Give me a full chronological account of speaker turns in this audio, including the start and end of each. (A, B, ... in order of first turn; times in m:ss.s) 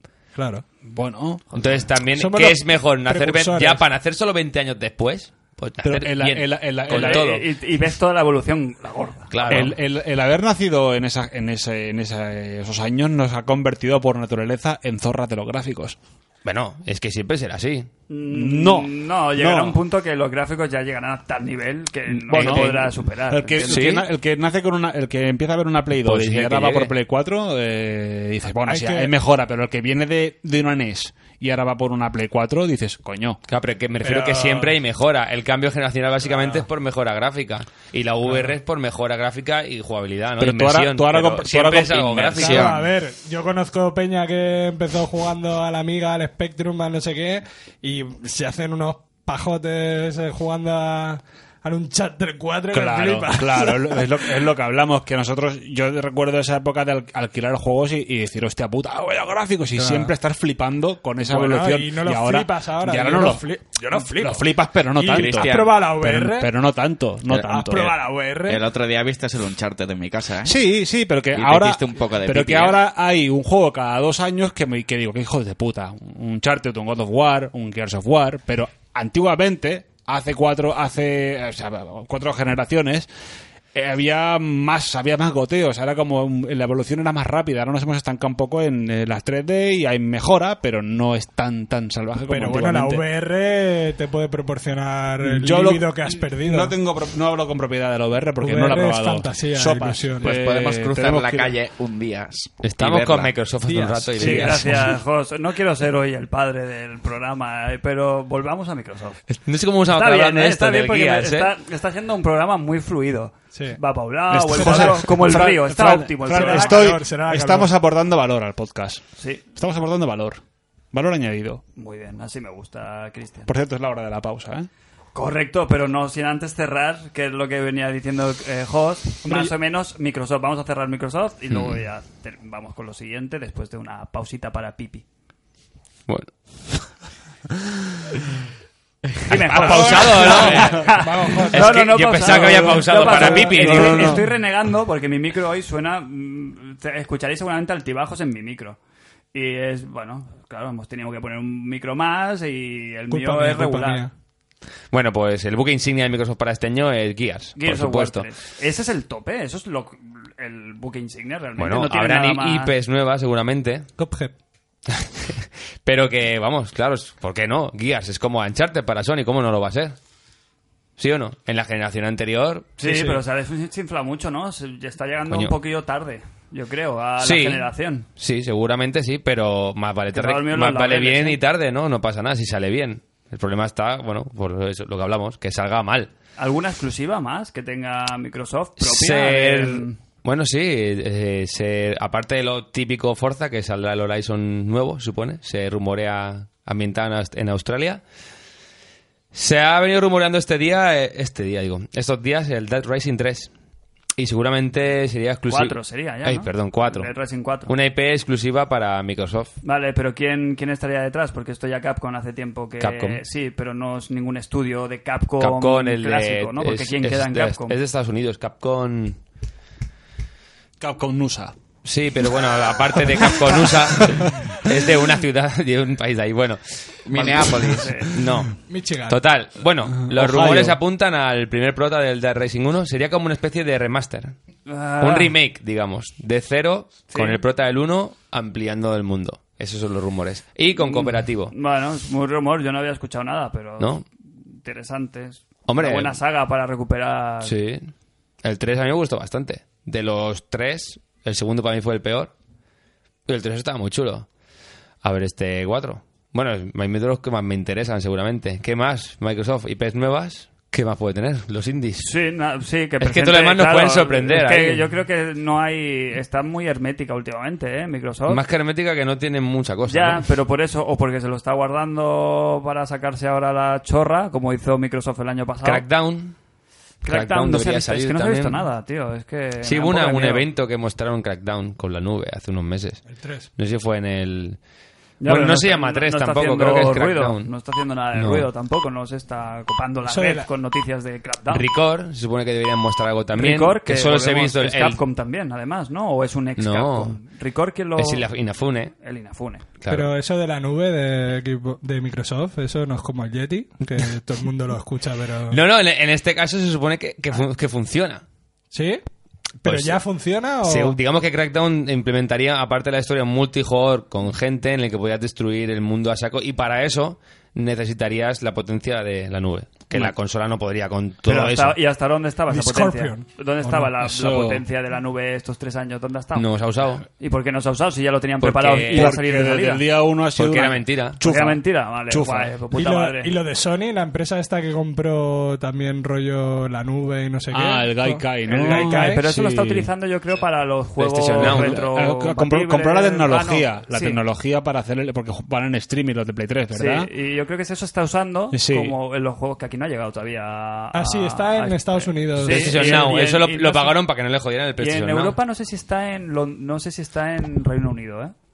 0:00.4-0:00.6 A
0:00.9-0:01.7 B
0:01.5-0:07.4 C
0:02.1-0:03.8 A
0:05.8-0:07.4 B
0:06.9-0:09.7 D
0:09.3-0:09.7 C
0:09.5-0:16.0 B
0:16.4-0:17.9 C
0:18.1-0:23.9 D
0:18.3-0:19.8 B
0:22.2-0:33.4 B
0:22.3-0:22.8 C
0:23.6-0:24.1 C
0:26.0-0:26.9 C
0:28.7-0:29.1 A
0:33.5-0:42.7 C
0:34.0-0:34.8 A
0:40.4-0:42.7 B
0:42.3-0:54.4 A
0:42.4-0:42.8 E
0:52.7-1:08.0 B
0:59.8-1:00.1 A
1:01.2-1:06.5 A
1:05.1-1:05.8 E
1:07.3-1:08.6 A
1:08.5-1:10.6 E
1:10.4-1:23.1 B
1:11.3-1:12.8 E
1:23.7-1:33.0 B
1:32.3-1:36.8 A
1:35.2-1:41.6 B
1:38.4-1:40.3 A
1:40.2-1:43.3 E
1:42.6-1:44.9 C
1:43.6-1:44.5 A
1:44.2-1:45.0 B
1:44.2-1:49.2 D
1:49.3-1:51.5 C
1:49.9-1:57.0 D
1:53.5-1:53.8 A
1:54.3-2:00.4 B
1:54.6-1:55.2 A
1:56.3-1:57.7 A
2:00.9-2:01.6 B
2:01.8-2:03.5 D
2:03.5-2:04.7 B
2:05.1-2:15.0 D
2:09.2-2:09.5 A
2:11.5-2:11.8 C
2:19.2-2:24.2 C
2:19.2-2:28.8 D
2:19.5-2:20.9 B
2:19.6-2:21.8 A
2:22.3-2:24.2 B
2:29.3-2:34.1 D
2:33.1-2:34.1 A
2:34.9-2:38.3 C
2:37.6-2:42.7 D
2:41.6-2:43.9 C
2:44.0-2:44.3 A
2:44.9-2:50.0 C
2:51.0-2:52.8 C
2:52.8-2:58.1 D
2:52.8-2:53.2 A
2:57.2-3:06.1 C
3:00.1-3:01.4 D
3:06.4-3:10.0 D
3:08.8-3:18.0 C
3:19.3-3:23.5 C
3:24.2-3:27.1 C
3:25.5-3:27.7 D
3:27.7-3:29.5 C
3:29.6-3:37.8 D
3:32.8-3:33.2 C
3:35.4-3:39.2 C
3:40.8-3:41.6 B
3:41.8-3:54.4 C
3:43.3-3:44.6 B
3:47.1-3:48.0 E
3:47.7-3:48.1 D
3:48.7-3:49.2 A
3:50.0-3:50.8 B
3:54.7-3:55.3 D
3:55.0-4:01.5 C
3:57.1-3:57.4 D
4:00.8-4:04.0 D
4:04.5-4:07.6 D
4:05.7-4:06.2 C
4:07.4-4:07.9 C
4:08.4-4:12.3 C
4:13.3-4:14.3 C
4:15.0-4:22.1 C
4:22.0-4:28.4 D
4:23.0-4:24.8 C
4:28.3-4:30.2 C
4:29.9-4:35.8 D
4:35.6-4:36.4 C
4:37.0-4:40.5 D
4:37.1-4:38.7 C
4:39.6-4:43.0 C
4:43.1-4:43.5 A
4:43.6-4:44.6 C
4:45.2-4:51.6 D
4:45.2-4:47.5 C
4:48.1-4:48.5 C
4:50.1-4:50.5 A
4:51.5-4:55.0 C
4:53.4-4:58.3 D
4:56.6-4:57.2 C
4:58.0-4:58.9 C
4:58.9-4:59.6 D
4:59.8-5:00.1 C
4:59.9-5:05.6 A
5:05.5-5:08.2 C
5:08.7-5:09.0 A
5:09.6-5:11.0 A
5:09.6-5:10.0 C
5:10.6-5:21.8 C
5:21.3-5:26.5 D
5:22.5-5:23.8 A
5:23.9-5:24.6 B
5:26.4-5:27.0 C
5:27.1-5:29.8 D
5:28.4-5:29.2 C
5:28.9-5:32.5 B
5:30.4-5:31.2 C
5:31.2-5:33.4 D
5:32.7-5:39.2 A
5:37.5-5:39.9 B
5:38.5-5:44.2 D
5:41.0-5:41.8 C
5:41.0-5:47.1 B
5:46.7-5:54.0 D
5:48.5-5:49.0 B
5:50.9-5:53.1 A
5:52.4-5:55.4 C
5:54.8-5:58.3 D